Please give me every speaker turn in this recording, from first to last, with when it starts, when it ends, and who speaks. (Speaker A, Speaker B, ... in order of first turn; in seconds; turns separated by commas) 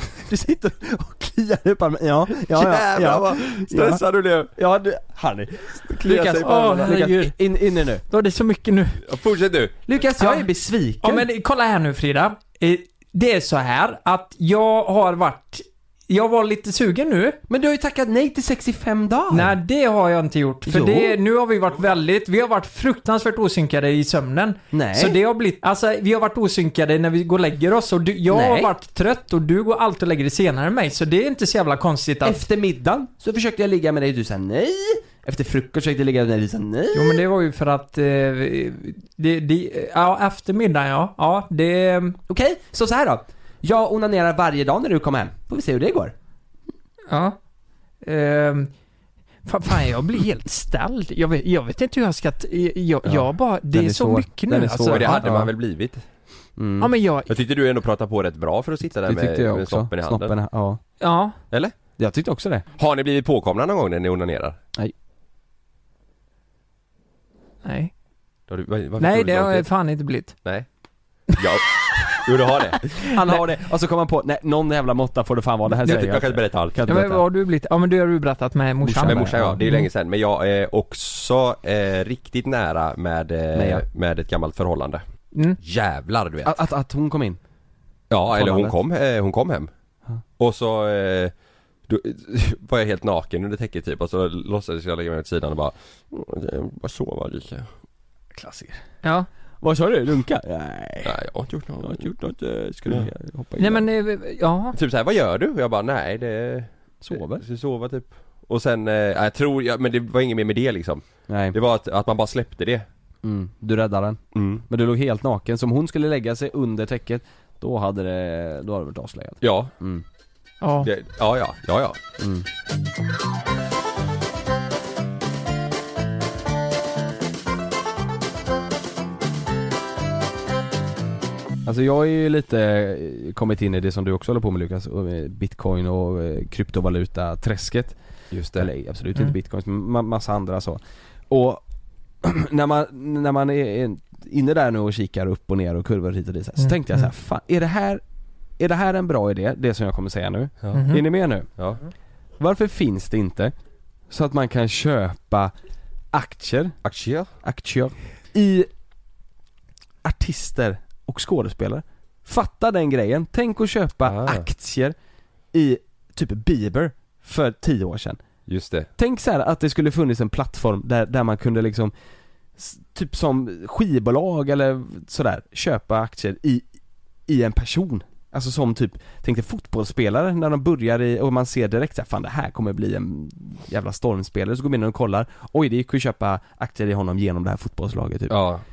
Speaker A: 0.2-8.0, Speaker B: 2.4-4.5, Speaker B: 5.9-7.0, Speaker C: 6.4-7.4, Speaker C: 8.1-9.0, Speaker B: 9.1-9.9, Speaker A: 9.9-11.3, Speaker C: 10.2-10.5, Speaker C: 11.0-17.4, Speaker A: 17.5-19.6, Speaker C: 19.3-32.4, Speaker A: 20.7-21.2, Speaker A: 24.7-25.2, Speaker A: 28.3-28.7, Speaker A: 32.2-37.2, Speaker C: 36.9-42.2, Speaker A: 42.3-46.1, Speaker C: 47.1-47.4, Speaker C: 48.0-48.7, Speaker C: 49.5-55.3, Speaker A: 53.0-55.5, Speaker B: 54.9-56.0, Speaker A: 56.6-56.9, Speaker C: 56.8-57.3, Speaker B: 57.3-60.3, Speaker A: 59.1-60.8, Speaker C: 61.0-61.4, Speaker A: 62.0-62.6, Speaker B: 62.8-64.6, Speaker C: 67.7-67.9, Speaker B: 68.5-69.7, Speaker C: 69.0-70.3, Speaker B: 71.3-72.9, Speaker A: 73.1-77.2, Speaker B: 75.8-76.8, Speaker C: 76.9-79.9, Speaker A: 78.8-79.6, Speaker B: 79.0-85.0, Speaker A: 83.5-83.8, Speaker B: 85.6-86.6, Speaker A: 86.4-87.4, Speaker B: 88.1-89.7, Speaker A: 88.3-88.8, Speaker B: 90.4-91.3, Speaker B: 91.9-97.7, Speaker A: 98.3-98.8, Speaker A: 99.6-101.1, Speaker B: 101.0-102.1, Speaker A: 101.8-103.8, Speaker C: 103.6-104.8, Speaker B: 104.7-112.9, Speaker A: 107.0-107.4, Speaker A: 111.3-111.5, Speaker A: 113.2-120.0, Speaker B: 114.3-114.6, Speaker B: 119.4-119.7, Speaker C: 120.6-120.9, Speaker B: 120.8-122.0, Speaker A: 122.2-122.5, Speaker A: 131.7-138.0, Speaker B: 138.3-138.7, Speaker A: 138.6-141.6, Speaker A: 142.2-148.0, Speaker C: 146.6-147.1, Speaker A: 148.6-151.5, Speaker C: 150.7-151.0, Speaker A: 152.4-153.5, Speaker A: 154.1-155.5, Speaker A: 156.1-156.8, Speaker B: 156.8-157.3, Speaker A: 157.4-158.7, Speaker A: 160.0-165.0, Speaker B: 164.1-164.5, Speaker A: 165.5-168.2, Speaker B: 168.5-168.9, Speaker A: 169.0-171.9, Speaker A: 172.6-176.7, Speaker A: 177.3-188.3, Speaker B: 188.3-188.6